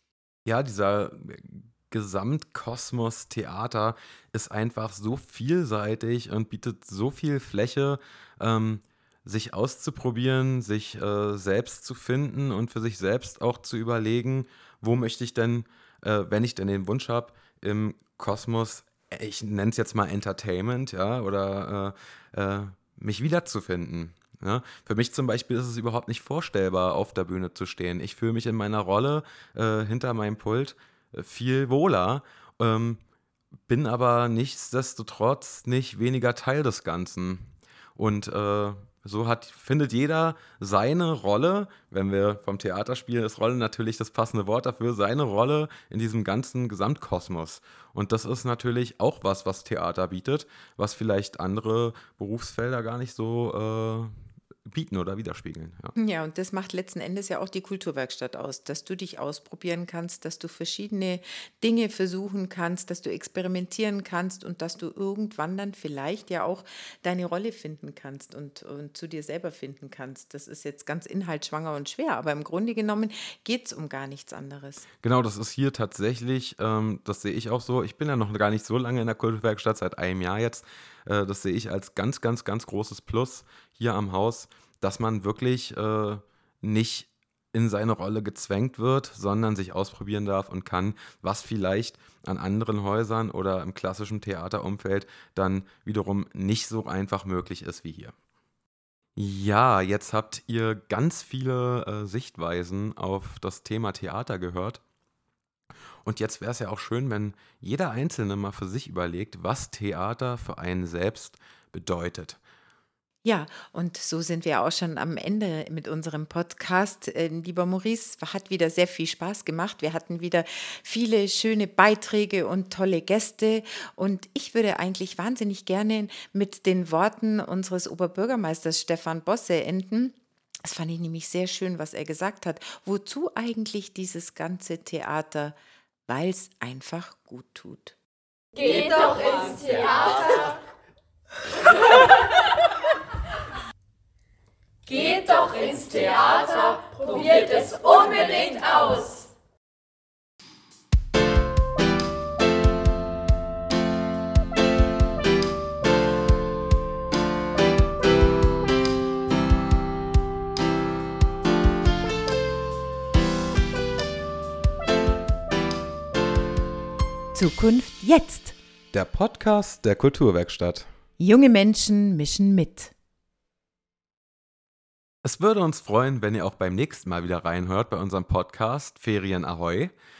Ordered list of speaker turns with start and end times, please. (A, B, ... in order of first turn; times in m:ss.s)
0:00.4-0:33.0 A
0:33.7-0:55.9 A
0:56.0-1:14.8 B
1:15.0-1:38.1 A
1:39.2-1:44.8 A
1:46.0-1:52.4 A
1:53.2-2:15.6 B
2:16.1-2:18.0 B
2:18.6-2:20.4 C
2:27.2-2:28.4 C
2:47.3-2:48.6 B
2:48.9-2:50.9 A
2:51.2-2:52.9 B
2:55.2-2:59.9 A